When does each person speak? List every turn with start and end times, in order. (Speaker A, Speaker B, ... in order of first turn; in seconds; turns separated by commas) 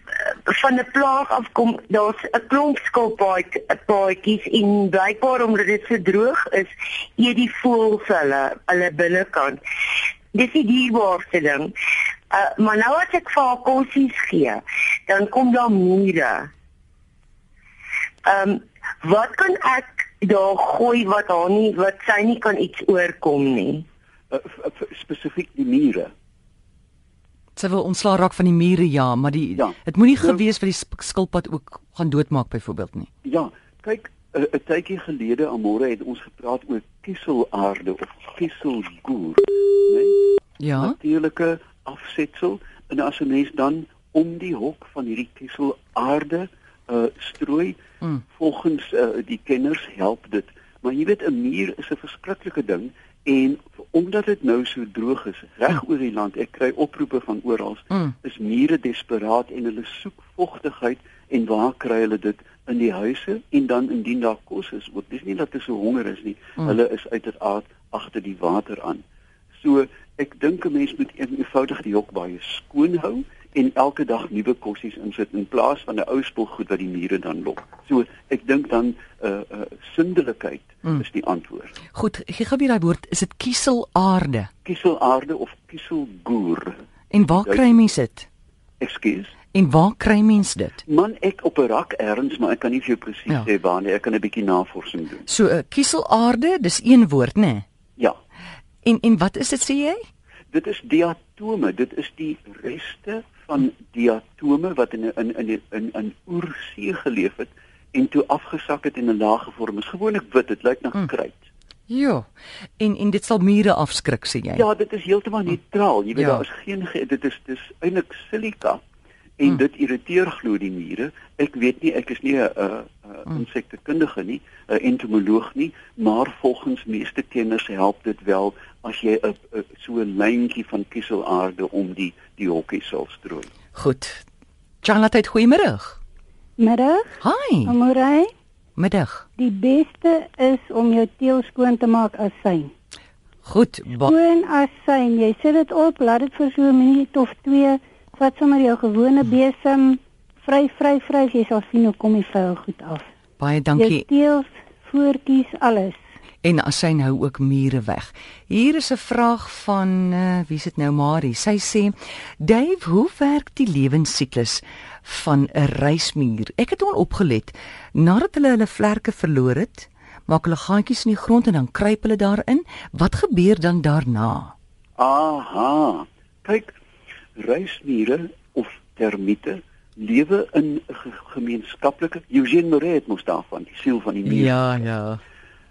Speaker A: 0.5-9.6, Speaker A: 10.3-11.7, Speaker A: 12.3-16.5, Speaker A: 18.2-23.8, Speaker B: 24.3-26.1, Speaker C: 27.6-33.1, Speaker B: 29.6-30.4, Speaker B: 33.2-40.2, Speaker C: 40.6-40.9, Speaker B: 40.7-47.8, Speaker B: 48.3-69.0, Speaker B: 69.6-81.8, Speaker C: 81.9-84.5, Speaker B: 84.6-86.8, Speaker C: 87.1-88.3, Speaker B: 87.3-87.9, Speaker B: 88.8-89.3, Speaker C: 89.5-90.8, Speaker B: 90.8-95.3, Speaker C: 95.3-97.6, Speaker C: 98.8-100.1, Speaker B: 100.5-111.5, Speaker C: 111.9-114.6, Speaker B: 114.5-118.8, Speaker C: 116.2-116.4, Speaker B: 119.4-133.5, Speaker C: 133.8-134.2, Speaker C: 134.8-136.0, Speaker D: 136.6-138.3, Speaker C: 137.2-137.7, Speaker C: 138.8-139.2, Speaker D: 139.4-142.7, Speaker C: 143.4-144.2, Speaker D: 144.0-153.1, Speaker C: 153.4-154.1, Speaker D: 153.7-156.0, Speaker C: 156.4-174.5, Speaker B: 175.0-176.7, Speaker B: 177.4-184.6, Speaker C: 184.2-185.2